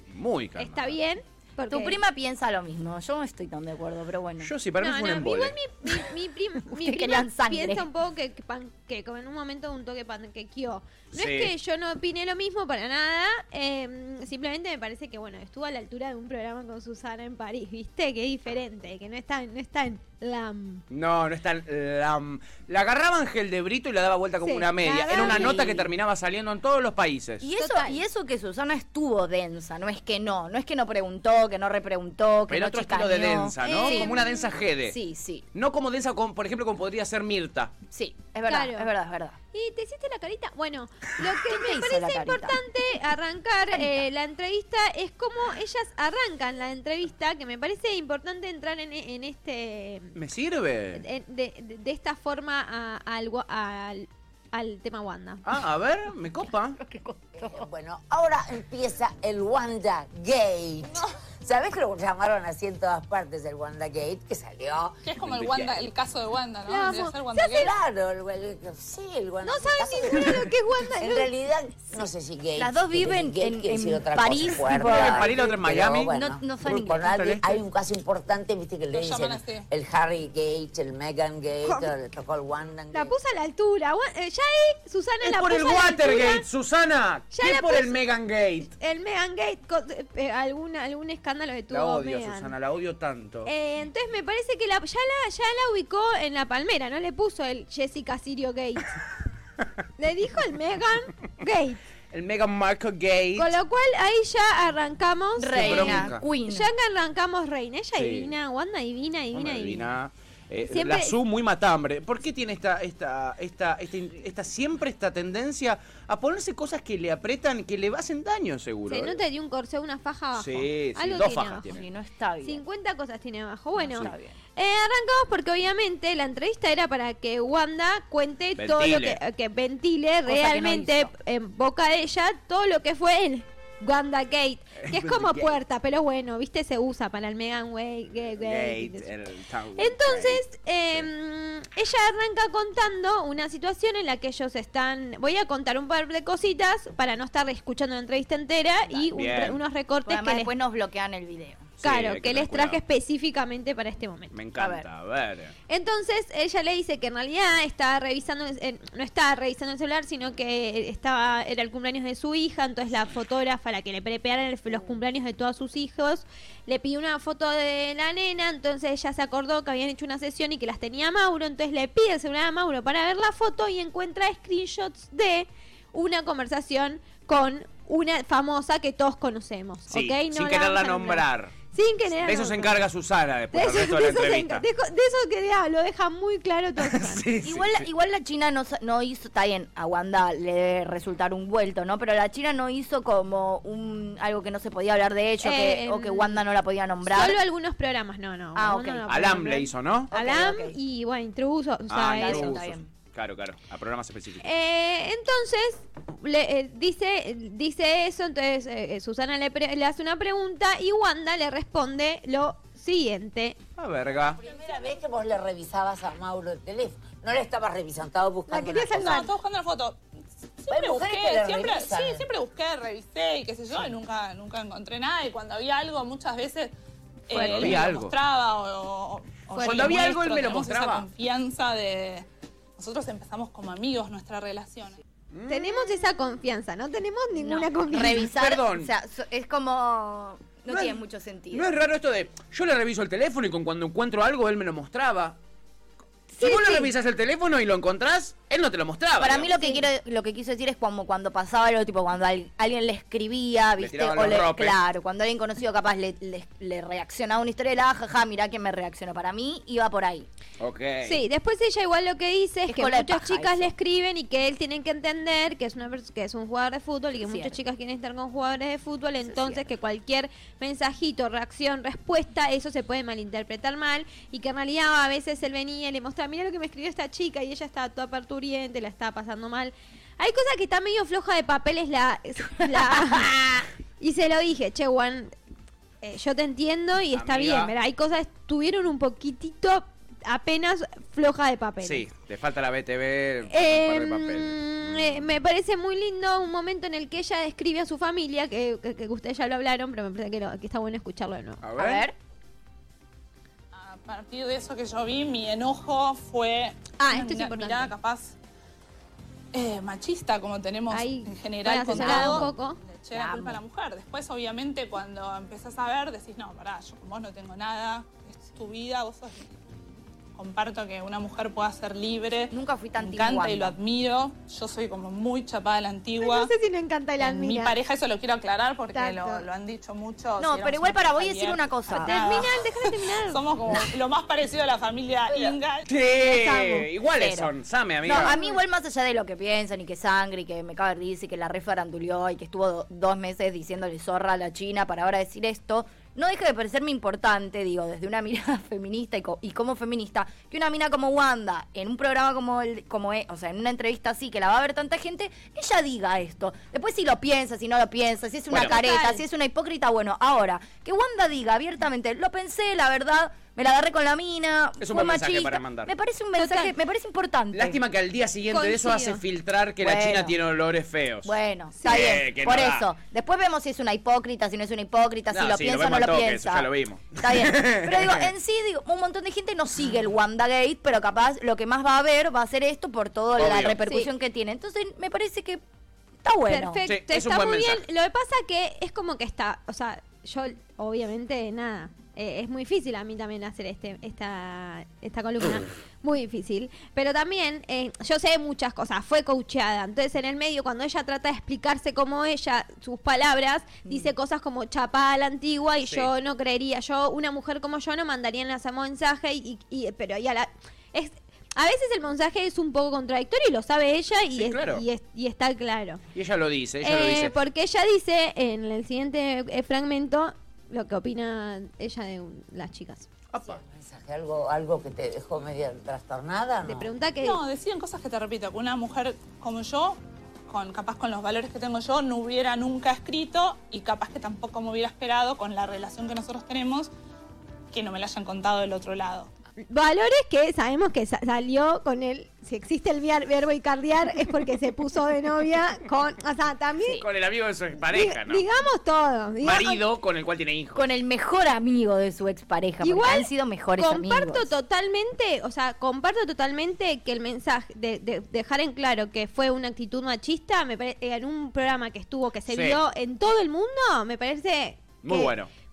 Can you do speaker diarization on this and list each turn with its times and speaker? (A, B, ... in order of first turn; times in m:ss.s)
0:00.1-0:01.0 A
0:00.6-0:02.0 B
0:01.7-0:04.5 C
0:04.4-0:05.6 A
0:04.8-0:20.8 B
0:06.7-0:07.9 C
0:11.1-0:11.5 A
0:20.9-0:27.4 A
0:24.4-0:25.8 B
0:25.1-0:25.9 C
0:27.4-0:34.1 C
0:27.6-0:28.0 B
0:32.5-0:35.0 A
0:33.6-0:34.6 B
0:34.8-0:35.4 C
0:35.5-0:37.7 A
0:37.9-0:39.4 C
0:38.5-0:38.9 B
0:39.5-0:50.2 B
0:41.3-0:42.7 C
0:50.2-0:51.0 A
0:51.0-0:55.4 B
0:55.4-0:56.8 A
0:56.8-0:57.7 C
0:57.4-1:05.0 D
1:05.0-1:07.7 E
1:05.2-1:05.9 A
1:06.7-1:07.7 B
1:07.5-1:23.2 D
1:09.4-1:11.3 B
1:12.6-1:17.6 C
1:14.7-1:16.1 A
1:16.6-1:17.4 A
1:18.9-1:19.7 E
1:21.6-1:21.9 B
1:22.9-1:26.5 B
1:25.2-1:28.7 A
1:27.3-1:28.0 B
1:28.8-1:32.5 B
1:31.7-1:33.5 A
1:33.4-1:38.9 B
1:40.0-1:41.8 B
1:42.1-1:43.5 A
1:43.4-1:49.9 B
1:45.4-1:46.7 C
1:45.6-1:46.2 A
1:48.0-1:48.3 A
1:49.3-1:59.2 A
1:50.7-1:51.2 B
1:58.9-2:01.7 B
2:00.4-2:01.9 A
2:01.7-2:02.6 C
2:02.4-2:19.1 B
2:03.8-2:04.4 C
2:08.6-2:09.2 A
2:10.3-2:11.1 C
2:14.8-2:15.5 A
2:18.4-2:20.4 A
2:19.8-2:30.5 B
2:29.1-2:29.6 A
2:30.0-2:31.7 C
2:31.8-2:32.8 A
2:31.8-2:34.4 B
2:34.3-2:35.5 A
2:34.6-2:34.8 C
2:35.7-3:02.8 B
2:59.9-3:01.5 A
3:02.1-3:04.6 A
3:03.5-3:07.3 B
3:06.8-3:07.9 A
3:07.4-3:17.4 C
3:15.4-3:16.4 B
3:17.1-3:22.6 B
3:18.6-3:19.1 C
3:19.1-3:20.1 A
3:20.1-3:20.8 C
3:21.9-3:24.5 A
3:22.1-3:22.9 C
3:24.4-3:33.6 B
3:33.8-3:34.4 A
3:34.3-3:39.2 D
3:38.5-3:39.3 B
3:39.0-3:40.0 E
3:40.6-3:46.7 E
3:40.7-3:42.3 D
3:47.3-3:55.0 E
3:47.3-3:47.8 C
3:47.3-3:48.2 A
3:49.6-3:51.1 A
3:55.3-3:55.9 A
3:55.5-3:58.3 B
3:57.4-4:01.7 C
3:58.0-3:58.9 A
4:00.7-4:05.4 A
4:06.4-4:06.9 B
4:06.4-4:09.5 A
4:09.2-4:20.3 C
4:09.5-4:09.8 B
4:13.8-4:14.8 A
4:20.6-4:21.2 A
4:21.0-4:45.3 B
4:22.7-4:23.7 C
4:27.2-4:27.6 C
4:29.2-4:29.7 C
4:46.0-4:52.1 B
4:47.1-4:47.7 A
4:51.8-4:55.2 A
4:53.5-5:01.6 B
5:01.6-5:02.1 A
5:01.8-5:02.2 C
5:03.7-5:08.4 E
5:07.0-5:07.9 B
5:09.5-5:19.7 E
5:10.9-5:12.8 B
5:11.9-5:12.5 C
5:13.1-5:13.6 C
5:20.4-5:26.5 E
5:22.5-5:23.8 C
5:26.2-5:27.8 B
5:27.2-5:35.9 E
5:28.9-5:29.4 B
5:30.4-5:32.4 C
5:31.9-5:33.4 B
5:35.9-5:38.4 A
5:36.3-5:37.5 C
5:36.3-5:36.8 B
5:38.0-6:07.8 C
5:38.1-5:38.6 B
5:58.5-5:58.9 A
5:58.6-5:59.2 B
6:04.8-6:05.9 A
6:06.4-6:06.7 B
6:07.5-6:12.9 A
6:08.5-6:09.2 B
6:09.8-6:10.4 C
6:11.2-6:16.7 C
6:15.3-6:18.3 A
6:17.2-6:25.6 C
6:23.3-6:23.8 A
6:26.2-6:26.8 C
6:26.5-6:56.0 B
6:26.9-6:27.8 A
6:43.9-6:44.1 C
6:45.8-6:46.1 A
6:54.3-6:54.8 A
6:56.1-6:57.4 A
6:56.8-7:03.1 B
7:03.3-7:03.6 A
7:03.4-7:06.9 D
7:06.6-7:07.4 B
7:07.2-7:16.9 E
7:17.7-7:19.3 E
7:19.7-7:27.0 B
7:27.0-7:28.4 A
7:27.9-7:29.8 B
7:29.4-7:30.9 A
7:30.8-7:34.5 C
7:32.8-7:45.3 B
7:42.5-7:42.8 A
7:45.0-7:45.5 A